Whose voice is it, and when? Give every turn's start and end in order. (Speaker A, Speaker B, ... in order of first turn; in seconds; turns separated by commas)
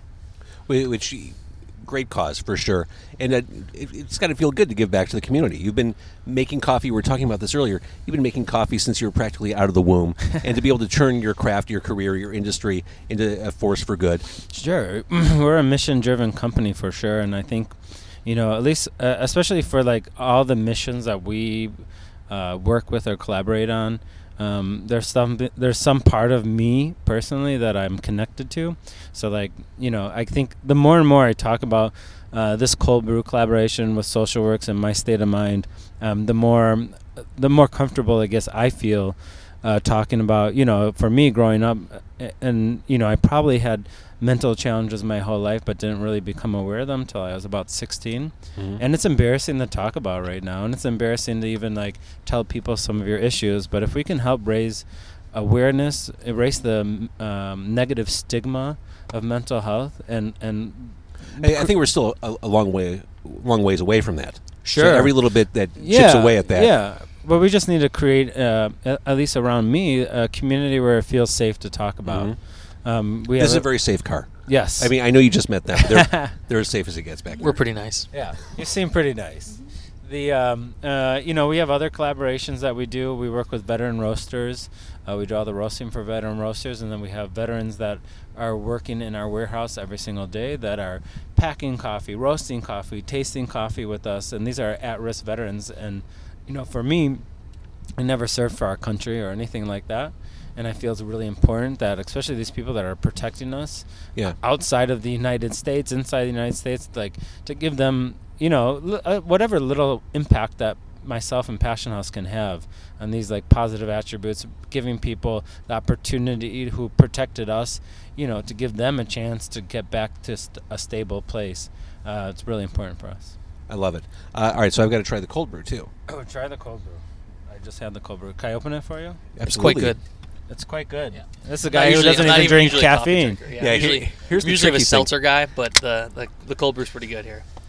Speaker A: 0.7-14.3, Speaker B: 14.5-61.7, Speaker A: 48.6-48.8, Speaker A: 61.4-66.7, Speaker B: 64.7-73.7, Speaker A: 72.0-72.4, Speaker A: 73.4-77.6, Speaker B: 74.5-74.9, Speaker B: 75.7-76.3, Speaker C: 77.4-78.1, Speaker B: 78.1-97.2, Speaker B: 98.0-103.8, Speaker B: 104.4-123.3, Speaker A: 123.7-125.9, Speaker B: 126.1-129.2, Speaker A: 129.4-130.0, Speaker C: 129.5-130.0, Speaker B: 130.5-133.4, Speaker C: 131.7-137.4, Speaker A: 133.6-135.1